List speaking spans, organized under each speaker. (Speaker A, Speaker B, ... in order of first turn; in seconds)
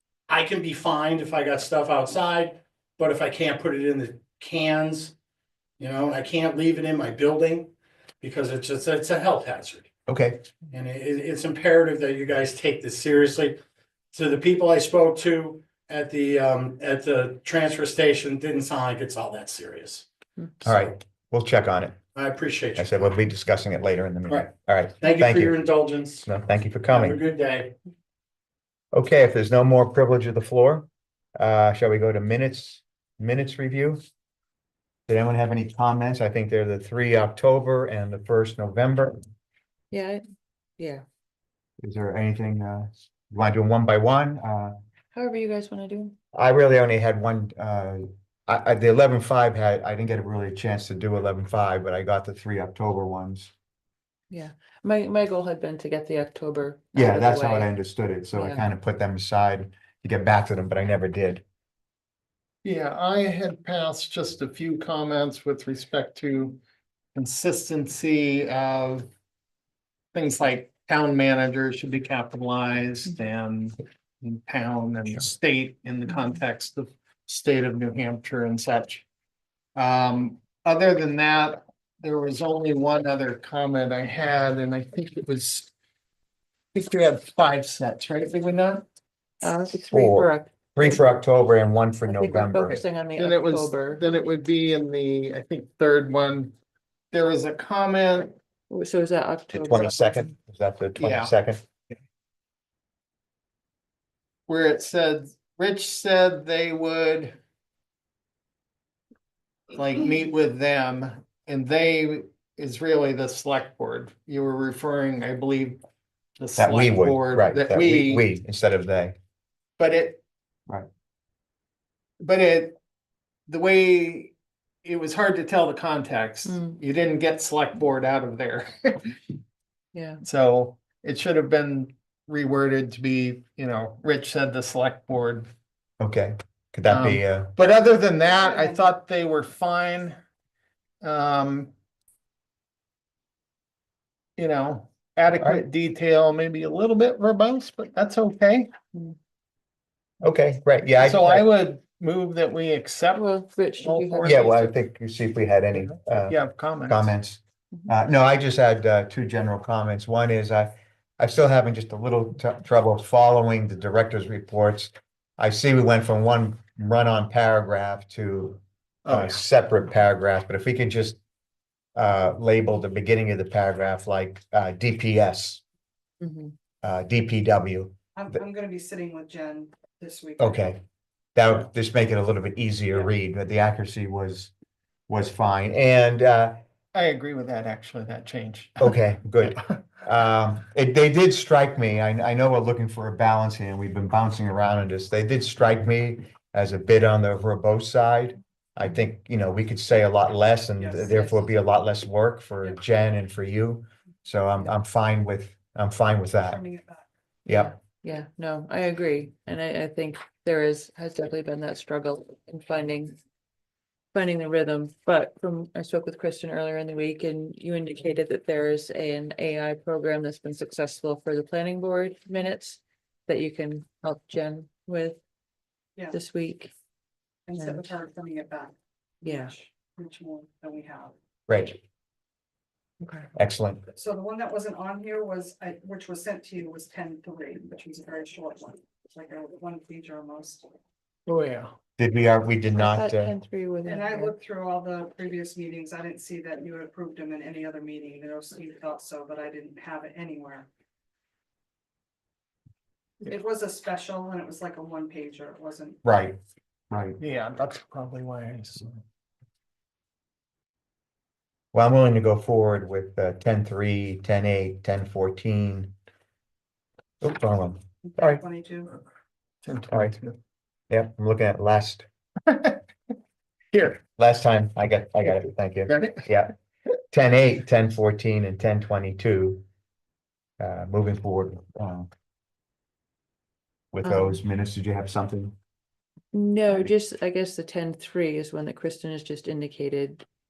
Speaker A: 0.3-5.1, 5.8-9.9, 10.7-13.6, 14.1-20.1, 22.1-22.9, 25.0-26.3, 26.9-27.7
Speaker B: 10.1-10.4, 20.6-22.0, 22.8-25.6, 26.2-27.2, 28.9-34.0, 35.1-39.2, 41.8-44.8, 46.3-53.5, 56.9-61.4, 89.9-92.8, 99.5-101.6, 116.6-119.2, 136.0-137.6, 150.2-151.5, 154.2-171.2, 171.9-175.6, 176.8-178.4, 180.4-180.8, 181.3-184.5, 185.1-186.6, 188.8-206.6, 207.5-207.7, 231.5-231.8, 233.3-233.8, 242.0-243.3, 256.0-256.4, 256.9-257.2, 261.7-265.9, 267.2-268.4, 270.9-272.0, 274.2-276.5, 277.1-279.6, 280.6-282.1, 283.9-285.5
Speaker C: 20.4-20.6, 39.9-40.2, 40.8-41.0, 45.1-46.2, 54.3-57.7, 58.3-58.7, 89.4-91.0, 92.1-94.0, 98.7-100.3, 126.5-126.8, 129.9-130.2, 153.2-154.7, 176.2-176.6, 201.1-201.5, 207.5-213.2, 214.1-225.2, 226.1-226.7, 227.6-227.9, 229.2-229.5, 233.0-233.3, 242.8-244.3, 284.0-284.4, 286.3-290.2
Speaker D: 62.6-66.6, 67.1-69.1, 70.1-79.0, 79.8-85.7, 86.7-88.8, 93.2-96.5, 97.1-98.3, 101.0-101.3, 104.5-107.3, 109.7-115.8, 116.4-118.3, 119.8-120.2, 122.2-122.8, 123.5-129.2, 130.2-135.5, 136.9-140.2, 141.0-141.7, 144.4-148.7, 151.0-154.6, 156.3-157.1, 169.1-169.3, 186.9-188.9, 241.3-241.8, 257.2-259.0, 269.6-270.4, 272.5-272.8, 273.7-274.0, 275.9-276.2
Speaker E: 138.3-138.9, 178.2-180.7, 200.8-201.1, 206.4-207.1, 227.5-231.1, 233.9-240.7, 243.8-250.7, 253.2-256.0, 268.0-269.0